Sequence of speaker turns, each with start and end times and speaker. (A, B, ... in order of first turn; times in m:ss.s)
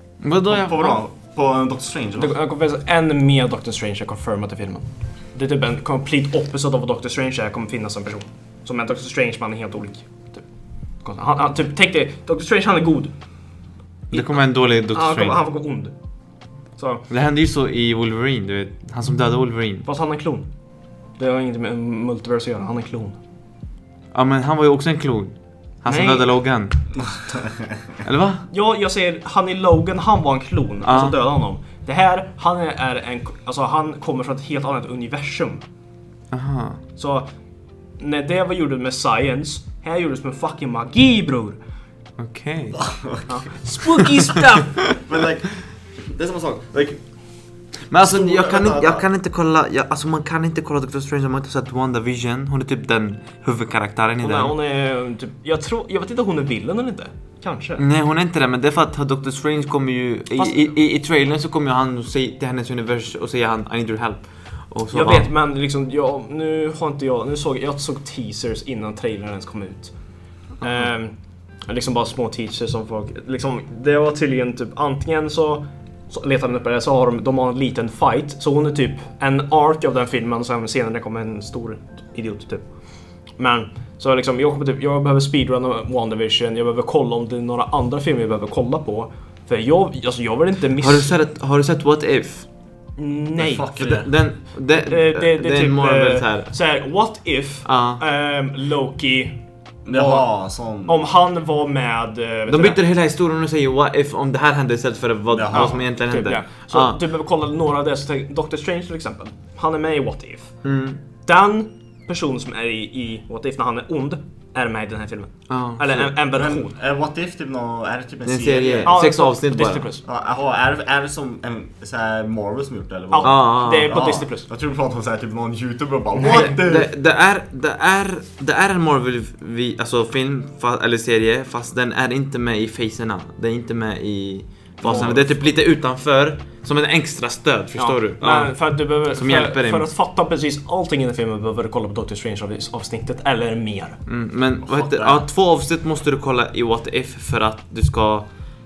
0:00.2-0:01.0 A
0:00.5-0:02.3 B
0:02.2-0:10.4 C
0:11.0-0:13.1 C
0:14.1-0:15.4 A
0:14.1-0:14.4 C
0:14.9-0:15.9 C
0:16.8-0:17.0 C
0:17.1-0:19.8 A
0:19.8-0:20.5 C
0:21.2-0:23.2 C
0:24.1-0:26.8 A
0:25.9-0:26.3 C
0:27.4-0:27.6 B
0:28.0-0:28.4 A
0:28.5-0:35.6 C
0:30.8-0:31.2 A
0:36.3-0:36.8 A
0:37.0-0:37.3 C
0:38.0-0:41.6 C
0:42.2-0:42.8 A
0:42.7-0:43.4 B
0:43.3-0:44.9 C
0:44.8-0:47.0 B
0:47.9-0:54.6 A
0:48.0-0:49.0 B
0:54.2-0:57.8 C
0:57.8-1:05.3 A
1:00.4-1:00.7 C
1:04.9-1:09.9 C
1:10.6-1:11.1 C
1:11.7-1:22.6 C
1:23.4-1:31.1 C
1:30.8-1:32.4 A
1:33.0-1:33.7 C
1:33.4-1:34.1 B
1:33.8-1:36.5 A
1:34.8-1:39.4 C
1:37.6-1:38.0 A
1:39.8-1:41.0 B
1:39.9-1:40.3 C
1:40.8-1:42.8 C
1:42.5-1:47.0 A
1:45.3-1:45.8 B
1:45.5-1:50.5 C
1:50.6-1:51.0 A
1:51.2-1:56.7 C
1:55.5-1:56.1 A
1:56.3-1:59.0 B
1:58.2-1:59.9 A
1:58.8-2:00.0 C
2:00.0-2:06.9 B
2:03.1-2:04.5 C
2:03.2-2:03.9 A
2:06.2-2:06.5 C
2:06.2-2:19.9 A
2:14.8-2:15.4 B
2:14.8-2:15.2 C
2:17.8-2:24.0 C
2:24.1-2:28.3 A
2:24.6-2:25.3 B